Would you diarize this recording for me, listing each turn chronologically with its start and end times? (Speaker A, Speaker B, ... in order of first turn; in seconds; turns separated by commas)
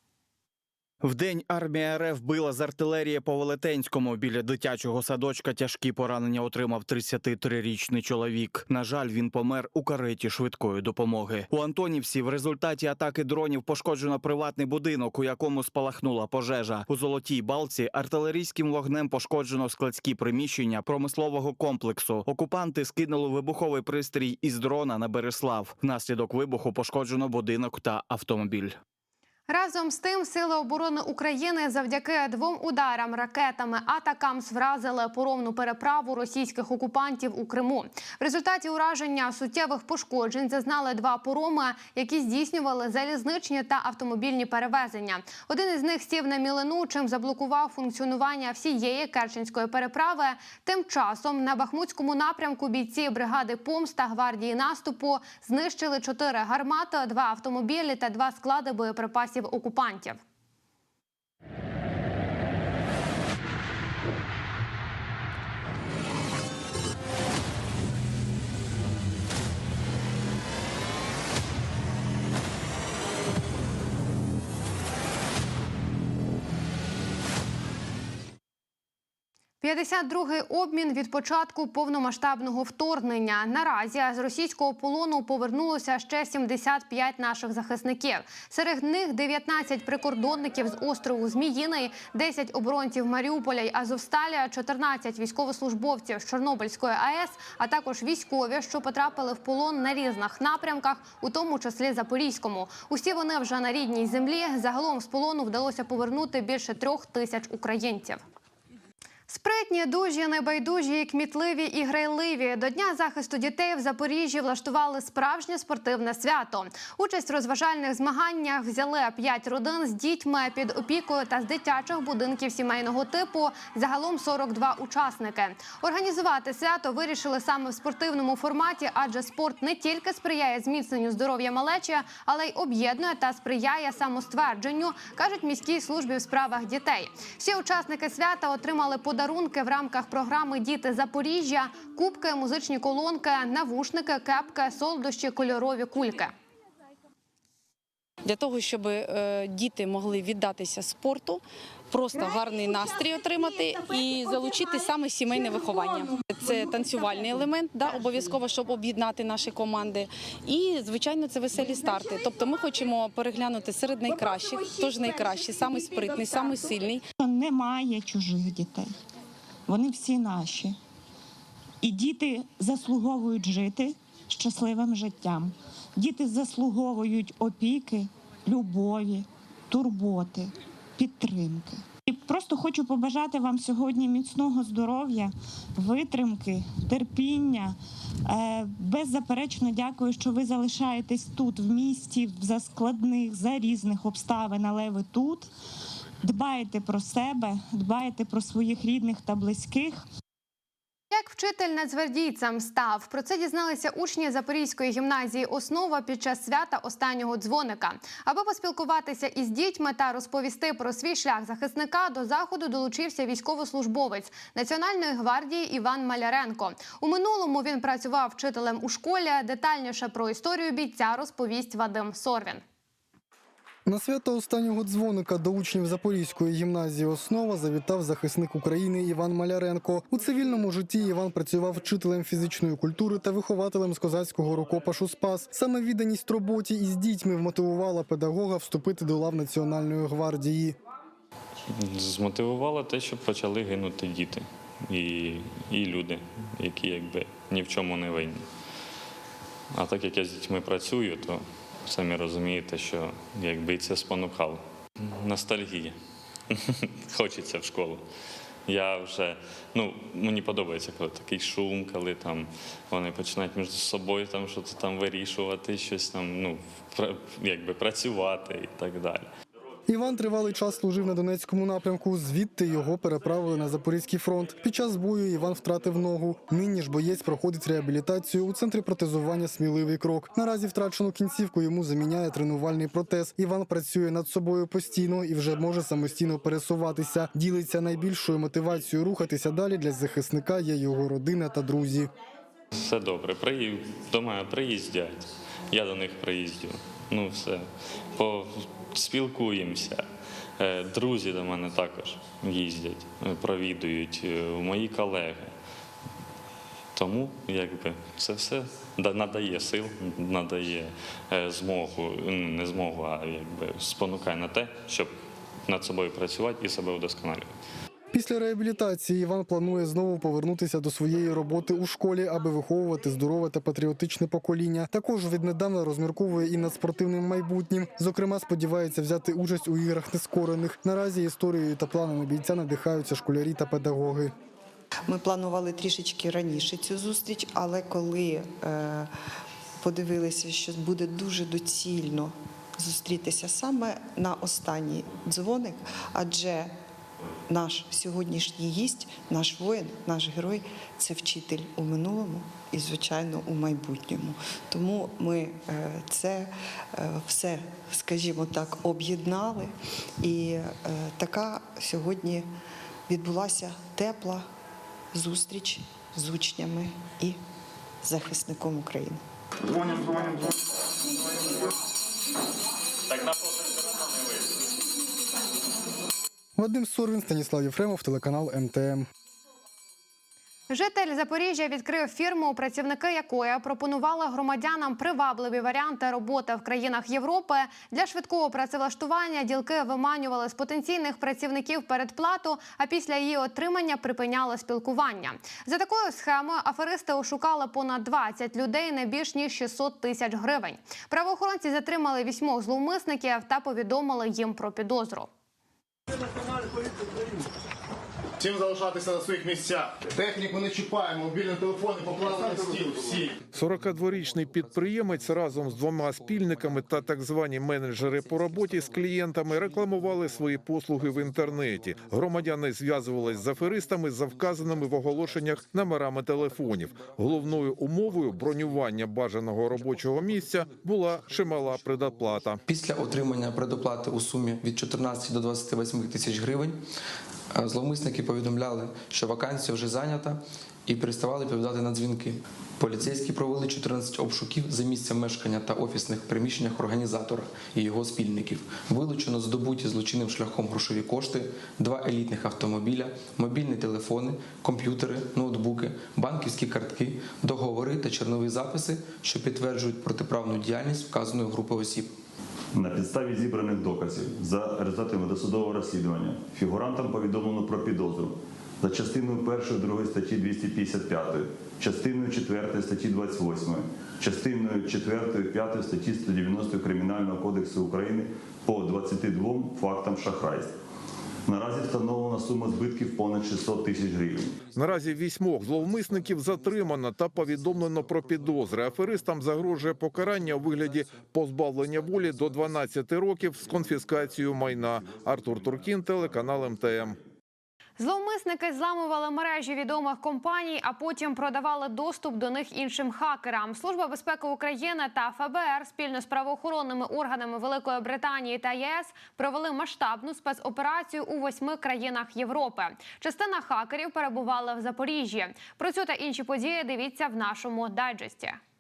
Speaker A: 1.0-28.8, Speaker B: 29.5-60.2, Speaker B: 79.6-108.2, Speaker B: 109.3-146.3, Speaker C: 148.2-167.1, Speaker D: 167.2-168.9, Speaker D: 169.7-170.8, Speaker D: 171.8-187.8, Speaker D: 188.3-195.5, Speaker D: 196.2-200.0, Speaker B: 201.1-222.6, Speaker E: 223.9-240.8, Speaker F: 241.7-248.4, Speaker F: 249.7-256.0, Speaker F: 256.5-258.0, Speaker F: 258.7-269.3, Speaker E: 269.9-292.1, Speaker F: 292.8-300.1, Speaker F: 300.6-305.5, Speaker F: 306.9-315.1, Speaker F: 315.7-317.5, Speaker E: 318.1-334.3, Speaker G: 335.1-339.1, Speaker G: 339.8-346.7, Speaker G: 347.5-362.5, Speaker G: 363.1-364.5, Speaker G: 365.1-367.4, Speaker G: 368.0-369.2, Speaker F: 373.1-374.0, Speaker E: 376.6-379.1, Speaker B: 380.7-405.3, Speaker H: 408.4-413.4, Speaker I: 413.5-432.6, Speaker J: 432.7-436.8, Speaker J: 437.5-462.1, Speaker K: 462.7-480.7, Speaker K: 481.5-484.6, Speaker I: 484.7-497.2, Speaker B: 498.0-518.6